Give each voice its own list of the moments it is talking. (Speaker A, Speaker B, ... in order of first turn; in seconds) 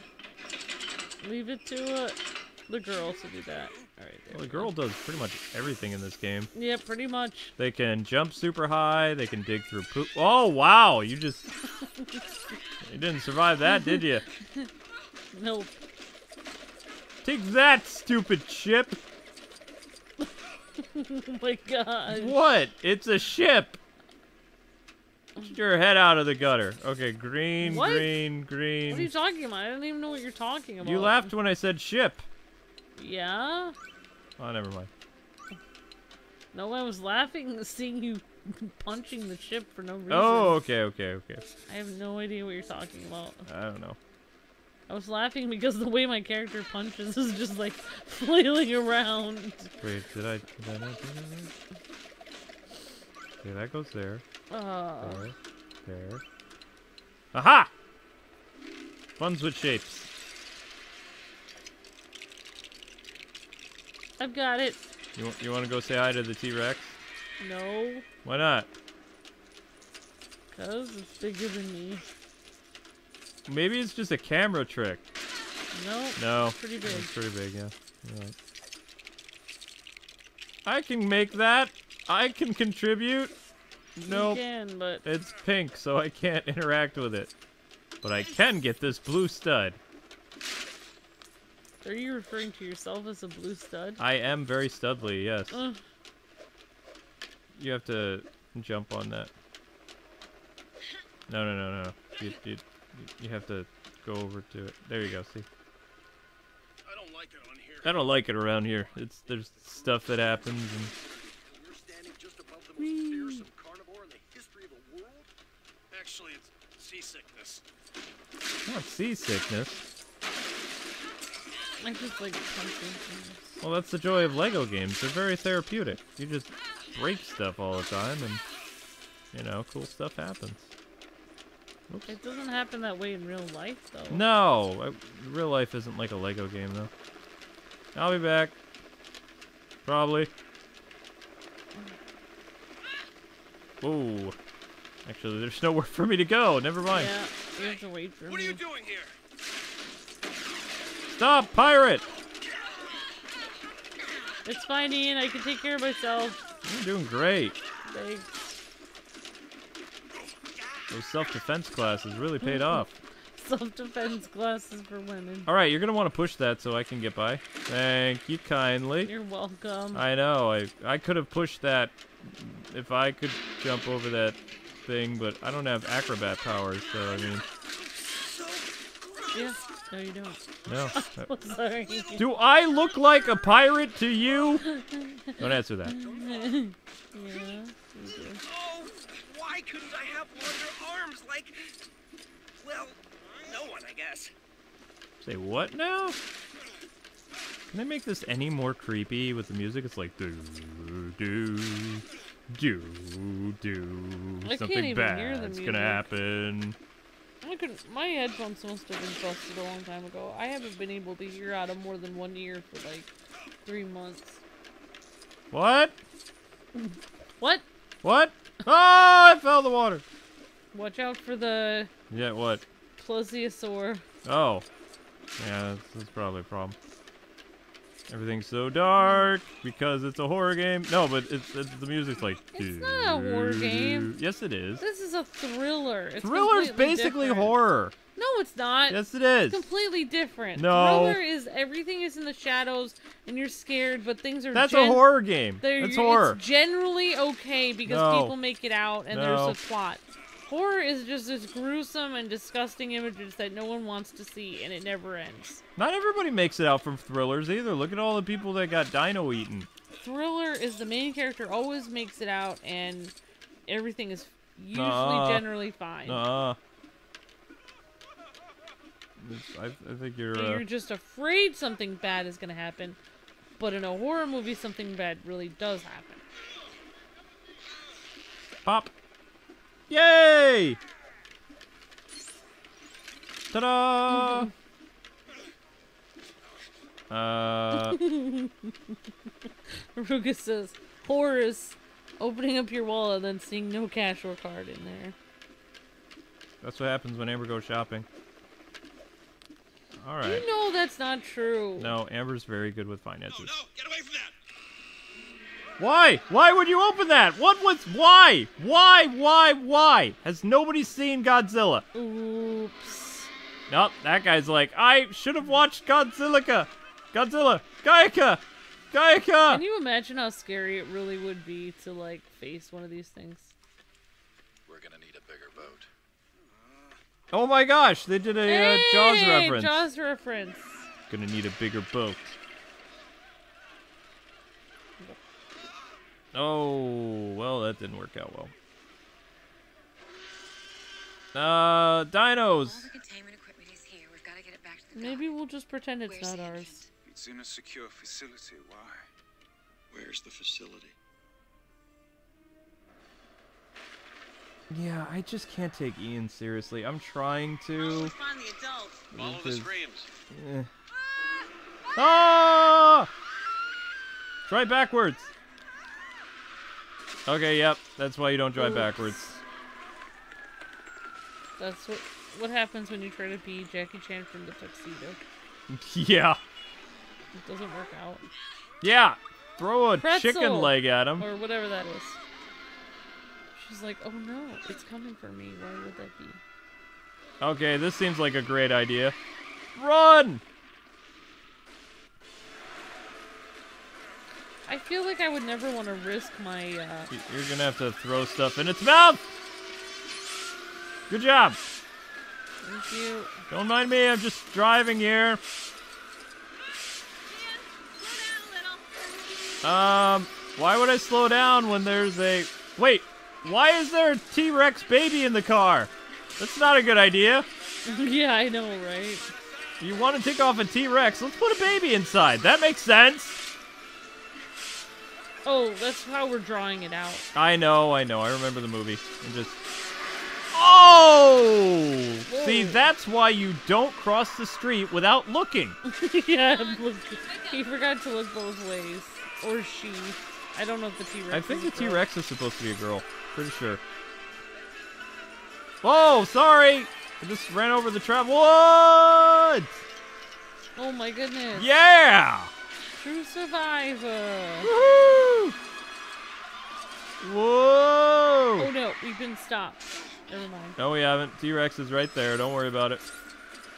Speaker A: 1.2-4.7, 6.5-7.5, 11.8-12.3, 13.6-14.7, 15.3-15.8, 20.2-22.4, 27.6-28.1, 28.9-31.3, 33.0-33.7, 36.5-40.6, 41.7-43.5, 44.9-49.7, 54.5-55.2, 64.2-64.8, 67.4-68.0, 70.5-72.0, 75.7-77.1, 84.1-85.0, 91.8-94.0, 95.5-95.8, 121.8-123.6, 132.1-134.2, 146.9-148.6, 154.4-156.4, 157.8-158.4, 162.4-162.8, 163.3-165.5, 169.0-170.0, 179.3-182.3, 184.6-188.4, 204.4-206.1, 207.4-213.1, 213.6-214.4, 216.7-217.6, 220.7-221.9, 223.0-224.1, 232.5-234.1, 234.8-237.6, 238.1-255.6, 260.0-263.1, 263.7-266.2, 270.3-273.0, 273.6-276.2, 284.1-284.5, 287.7-288.9, 289.7-295.1, 300.2-301.9, 311.9-313.3, 319.5-323.5, 328.4-330.9, 344.9-346.9, 368.6-369.1, 371.6-375.3, 377.3-378.3, 380.0-382.2, 383.5-386.4, 394.7-397.1, 402.6-403.3, 417.9-419.3, 425.4-427.3, 432.3-432.8, 435.8-442.1, 450.8-451.7, 452.9-454.7, 458.6-460.8
Speaker B: 4.3-6.5, 7.6-11.5, 12.8-14.3, 17.2-19.0, 22.1-23.8, 25.4-29.1, 30.8-32.3, 34.4-34.9, 40.1-41.4, 43.5-44.0, 49.8-51.5, 53.4-54.2, 55.0-56.2, 57.3-57.7, 59.2-60.1, 65.2-67.0, 68.2-68.7, 73.5-75.0, 76.2-78.3, 80.6-83.3, 84.0-84.4, 85.0-87.3, 88.0-89.8, 94.0-95.6, 97.6-99.3, 101.3-105.5, 107.8-110.9, 112.8-113.5, 118.7-119.8, 123.6-128.4, 129.3-130.7, 131.9-132.1, 134.1-136.9, 137.9-138.6, 139.8-140.3, 143.8-144.4, 145.1-147.1, 151.1-152.1, 156.6-157.6, 160.9-162.9, 165.4-169.1, 169.9-177.4, 180.7-181.3, 182.2-184.6, 185.4-185.9, 195.2-196.2, 197.7-206.8, 215.5-215.9, 218.0-220.0, 222.1-222.6, 224.2-224.7, 225.4-226.8, 228.1-234.8, 236.2-237.9, 238.9-239.6, 240.6-241.2, 244.5-246.4, 247.8-248.3, 249.1-249.6, 255.8-259.7, 264.7-265.4, 266.1-266.6, 269.2-270.6, 278.6-278.9, 279.9-280.8, 283.5-284.5, 287.1-288.0, 296.6-298.1, 300.0-300.4, 301.8-303.6, 305.8-311.9, 313.7-319.6, 327.3-329.8, 331.1-332.4, 336.3-338.5, 341.3-342.9, 354.7-358.1, 359.1-359.7, 360.3-360.7, 361.9-363.1, 364.5-365.3, 367.3-369.4, 375.7-376.4, 378.8-381.3, 387.4-389.1, 389.7-390.4, 397.1-399.2, 401.1-401.6, 403.5-405.4, 409.6-417.5, 419.8-423.4, 427.3-429.6, 430.5-435.8, 441.3-443.8, 445.8-449.8, 451.5-452.5, 454.6-455.6, 457.2-458.7, 460.8-463.0
Speaker C: 106.8-115.3, 115.9-117.6, 148.3-149.1, 177.9-179.6, 181.8-182.2, 186.0-186.6, 188.4-191.7, 192.6-194.3, 303.5-304.3, 419.3-419.8
Speaker D: 324.6-325.9, 349.9-350.9, 359.1-360.1
Speaker E: 342.6-345.3, 346.0-346.9, 357.7-359.1, 407.2-409.0, 436.5-437.7
Speaker F: 347.1-349.1